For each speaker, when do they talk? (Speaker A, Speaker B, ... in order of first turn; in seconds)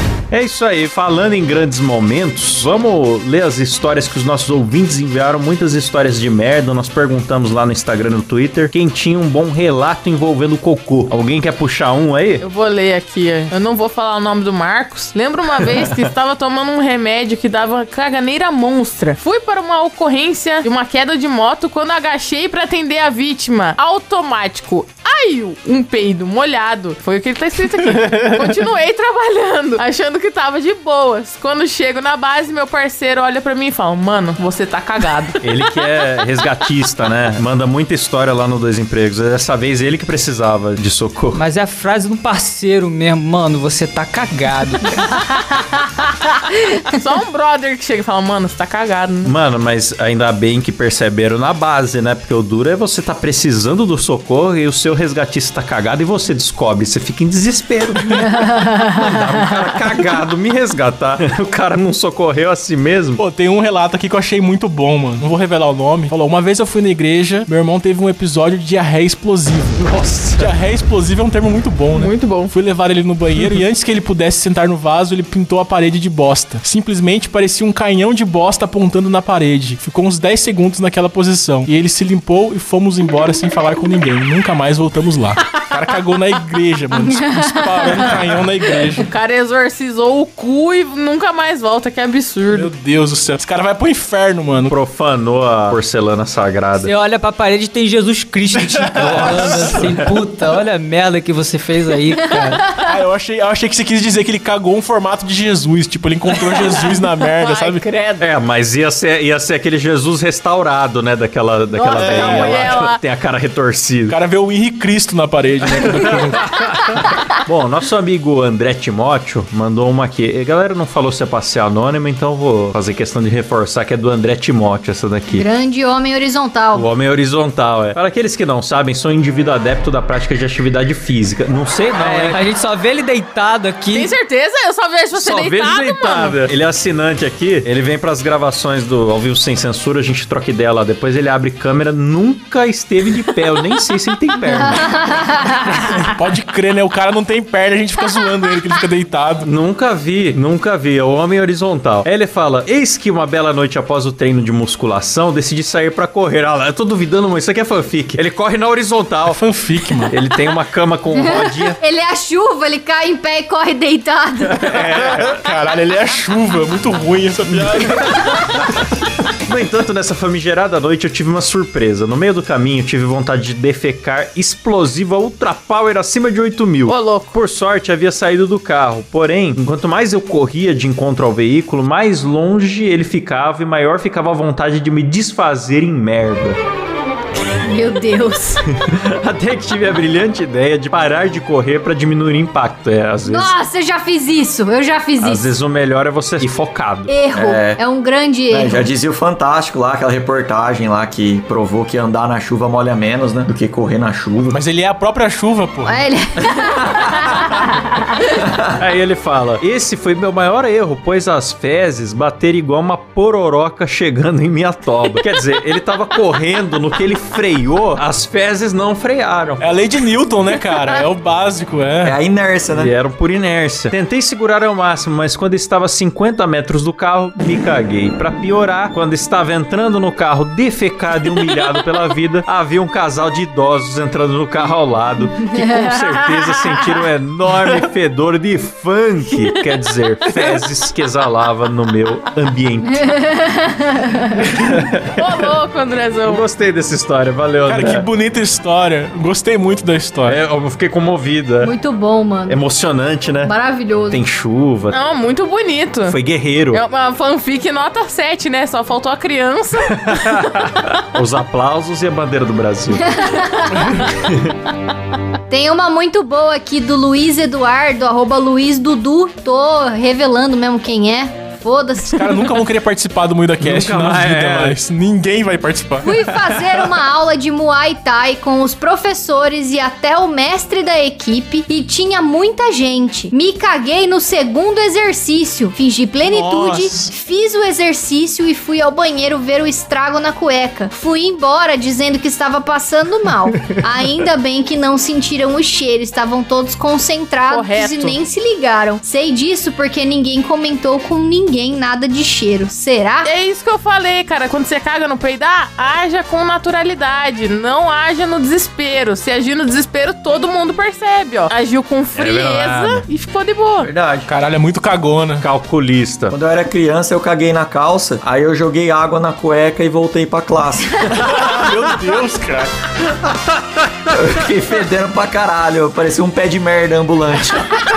Speaker A: 0.3-12.4, 15.6-16.0, 35.4-41.4, 49.2-63.2, 69.8-70.5, 94.7-96.9, 98.8-100.2, 108.2-114.2, 115.6-125.4, 126.7-132.4, 135.1-145.2, 149.4-161.8, 164.5-165.4, 167.5-168.7, 169.4-186.6, 188.8-193.5, 195.2-197.1, 208.8-219.6, 222.7-243.1, 244.4-245.5, 246.2-248.1, 250.2-251.7, 252.5-253.5, 254.1-254.9, 256.1-256.8, 259.9-263.4, 264.1-264.5, 273.6-274.8, 312.1-313.0, 315.4-316.3, 323.2-324.2
Speaker B: 12.4-35.4, 46.9-49.3, 71.9-72.5, 89.0-92.7, 106.3-108.2, 111.7-113.0, 133.9-136.4, 176.9-177.3, 245.1-246.4, 254.9-256.2, 256.7-260.1, 297.5-298.2, 303.2-313.9
Speaker C: 27.9-28.6, 63.2-89.1, 92.5-94.7, 98.9-99.9, 102.7-107.8, 111.9-112.7, 114.1-117.0, 145.6-149.5, 159.2-160.2, 164.7-168.5, 204.5-206.0, 219.6-222.2, 247.7-250.4, 272.1-276.2, 286.2-287.1, 314.2-315.4, 321.1-322.7
Speaker D: 41.4-45.0, 96.8-102.6, 132.0-134.1
Speaker E: 58.2-59.5, 87.0-88.1, 102.2-102.9, 125.3-126.8, 144.5-146.1, 161.1-164.7, 187.4-188.7, 193.2-195.6, 197.1-198.9, 205.8-207.9, 235.4-236.8, 242.8-244.5, 251.6-252.6, 253.4-254.2, 263.0-264.0, 265.5-272.4, 276.0-303.3
Speaker F: 197.3-197.8, 198.5-204.6, 206.6-207.1, 208.4-208.8, 222.0-222.9, 313.8-314.3, 316.3-321.4, 324.1-327.7